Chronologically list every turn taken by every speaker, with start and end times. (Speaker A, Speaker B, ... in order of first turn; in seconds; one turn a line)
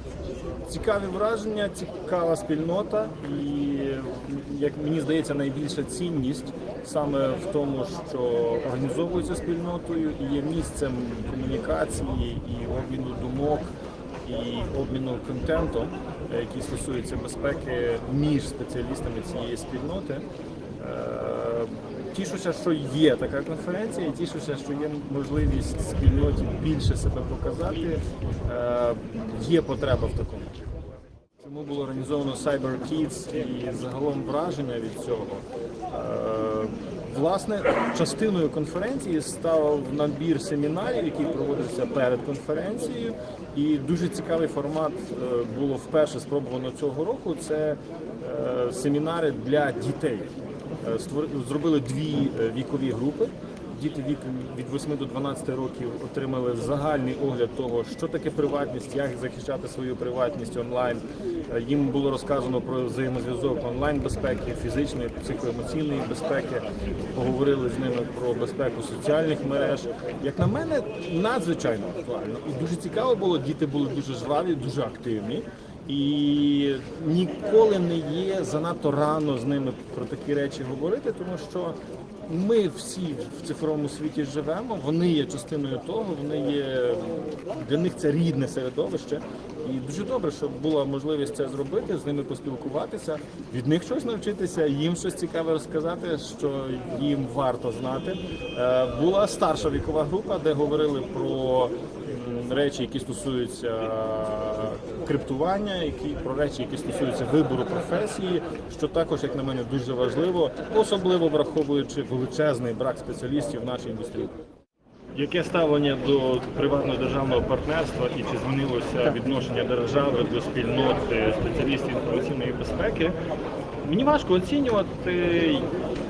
Speaker A: 0.7-13.7
Speaker A: 14.2-20.2
Speaker A: 20.8-30.5
Speaker A: 31.4-50.3
Speaker A: 50.8-114.3
Speaker A: 115.1-123.2
Speaker A: 123.8-125.7